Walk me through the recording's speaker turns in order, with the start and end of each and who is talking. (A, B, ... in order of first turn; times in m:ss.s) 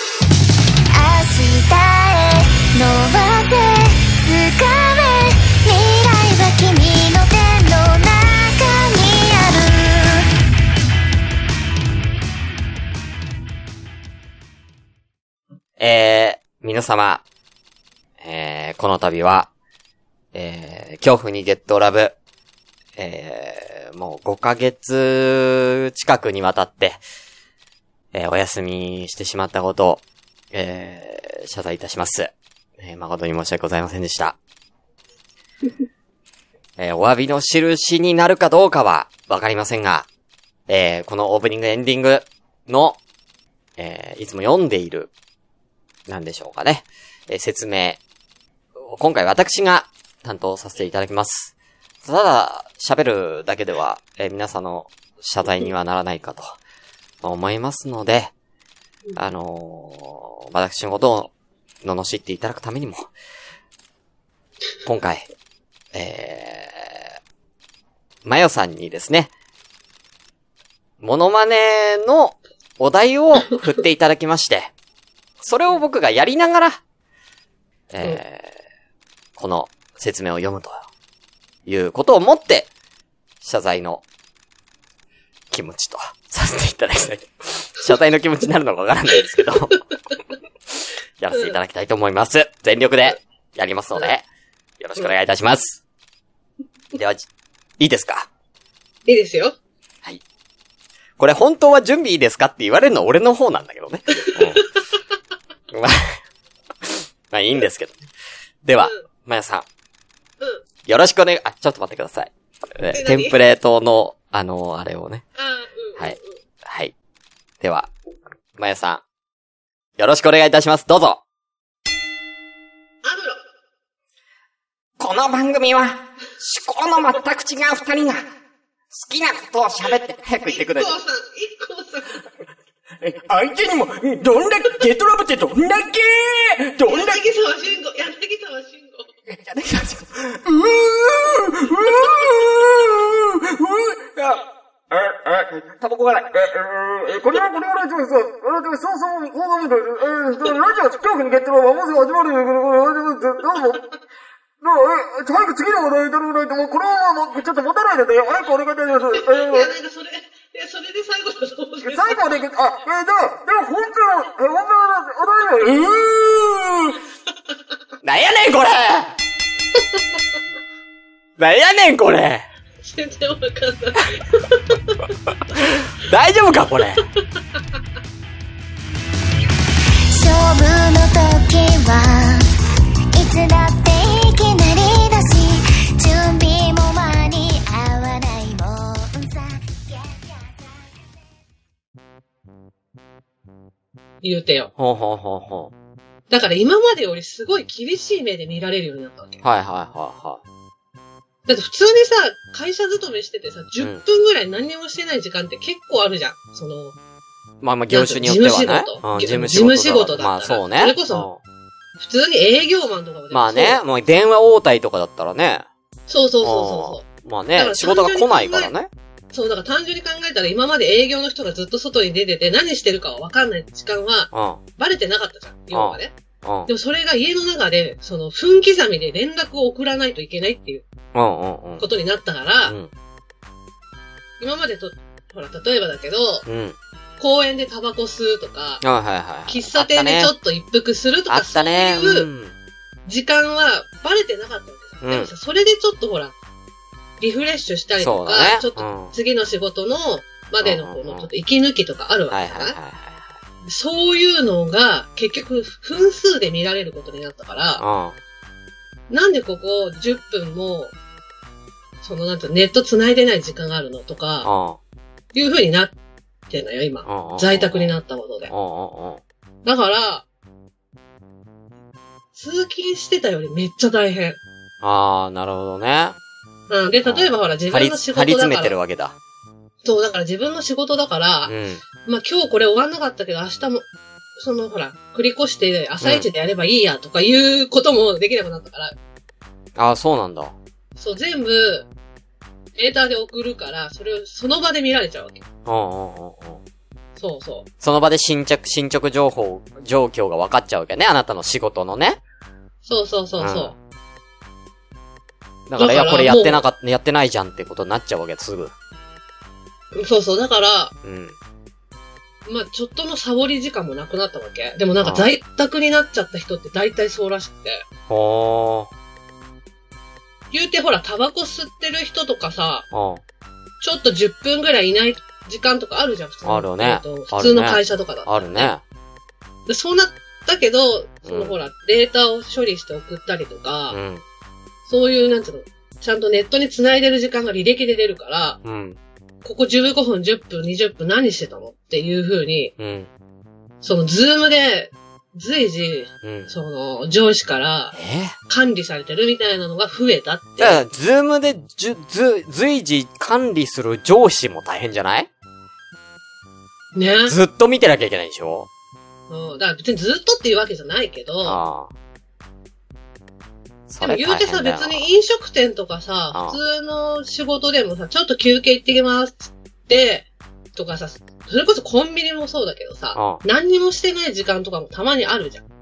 0:00.9-0:10.3 A
0:15.8-0:17.2 B
0:18.2-0:19.5 B
0:20.3-0:22.1 B
0:23.0-0:27.0 B
0:28.1-0:30.0 B
0:30.5-0:34.4 B
0:36.8-0:40.1 B
0:40.7-0:43.0 B
0:43.8-0:45.1 B
0:46.1-0:48.0 B
0:48.8-0:56.6 B
0:57.2-0:58.3 B
0:59.2-1:01.3 B
1:01.8-1:03.1 B
1:04.8-1:05.3 B
1:05.9-1:07.0 B
1:08.2-1:09.3 B
1:11.0-1:14.7 B
1:15.4-1:16.8 B
1:17.9-1:18.5 B
1:19.4-1:20.8 B
1:21.6-1:22.7 B
1:23.4-1:24.0 B
1:25.5-1:29.8 B
1:30.8-1:34.2 B
1:31.3-1:31.6 C
1:34.8-1:35.8 B
1:36.9-1:37.3 B
1:37.8-1:38.3 B
1:39.0-1:39.6 C
1:41.2-1:44.7 B
1:44.2-1:44.6 C
1:45.7-1:46.2 B
1:46.8-1:48.0 B
1:48.6-1:49.6 B
1:50.8-1:55.2 B
1:52.9-1:53.4 C
1:55.4-1:56.3 C
1:56.0-1:56.9 B
1:57.6-1:57.9 B
1:58.6-1:59.0 B
2:00.0-2:01.2 B
2:03.0-2:03.4 C
2:05.0-2:08.3 B
2:08.9-2:11.0 B
2:10.5-2:12.2 C
2:13.2-2:16.9 D
2:16.8-2:17.1 B
2:16.9-2:19.0 C
2:19.3-2:20.4 B
2:20.4-2:24.1 D
2:24.9-2:33.9 D
2:25.8-2:26.2 B
2:34.6-2:39.7 D
2:39.1-2:42.2 C
2:41.8-2:47.0 D
2:48.0-2:49.1 B
2:49.7-2:50.2 C
2:51.4-2:52.4 B
2:52.8-2:55.0 C
2:55.3-2:57.0 B
2:57.2-2:57.6 C
3:00.1-3:02.5 A
3:03.1-3:11.0 A
3:14.2-3:14.7 C
3:14.8-3:15.7 B
3:16.3-3:19.4 C
3:19.4-3:20.4 B
3:21.4-3:27.0 C
3:27.6-3:31.4 B
3:27.9-3:31.3 C
3:32.0-3:33.8 C
3:33.3-3:35.6 B
3:36.1-3:38.7 C
3:36.4-3:38.9 B
3:39.3-3:46.1 C
3:44.3-3:44.6 B
3:45.7-3:46.7 B
3:46.7-3:50.8 C
3:51.1-3:51.8 B
3:51.8-3:52.8 C
3:54.4-3:56.4 C
3:56.4-3:56.8 B
3:57.2-3:58.8 C
3:58.8-4:00.3 B
3:59.5-4:02.3 C
4:01.3-4:02.5 B
4:03.0-4:06.3 C
4:05.0-4:05.3 B
4:07.2-4:12.8 C
4:08.0-4:09.1 B
4:10.6-4:11.3 B
4:12.3-4:13.3 B
4:13.6-4:17.8 C
4:17.8-4:18.2 B
4:19.1-4:20.9 C
4:22.0-4:24.5 C
4:24.4-4:24.8 B
4:25.3-4:25.9 C
4:26.5-4:28.5 C
4:27.0-4:28.0 B
4:28.5-4:29.2 B
4:29.6-4:30.2 C
4:32.3-4:34.4 C
4:34.8-4:36.2 B
4:36.7-4:38.8 C
4:37.0-4:39.1 B
4:39.8-4:41.5 C
4:41.4-4:41.8 B
4:42.0-4:43.8 C
4:44.4-4:49.0 C
4:46.0-4:46.3 B
4:49.8-4:50.5 B
4:51.0-4:51.9 C
4:52.8-4:55.4 C
4:55.6-4:56.6 B
4:57.2-4:57.7 C
4:57.8-5:02.2 B
5:02.8-5:03.7 C
5:03.4-5:03.7 B
5:05.7-5:08.7 B
5:05.8-5:06.6 C
5:09.9-5:10.9 C
5:11.0-5:11.3 B
5:12.4-5:17.8 C
5:15.0-5:15.3 B
5:18.1-5:18.9 B
5:20.5-5:22.8 C
5:22.9-5:23.2 B
5:23.8-5:28.7 C
5:26.4-5:28.8 B
5:29.7-5:34.0 C
5:31.2-5:31.6 B
5:33.9-5:34.2 B
5:34.9-5:38.6 C
5:38.6-5:39.0 B
5:39.4-5:42.7 C
5:42.8-5:43.1 B
5:43.8-5:47.9 C
5:46.2-5:46.5 B
5:47.9-5:48.4 B
5:48.5-5:50.8 C
5:50.6-5:55.3 B
5:56.9-5:57.3 C
5:57.3-5:58.7 B
5:59.3-6:01.6 C
6:01.4-6:01.9 B
6:03.9-6:05.1 B
6:04.0-6:15.6 C
6:06.3-6:06.6 B
6:13.1-6:13.4 B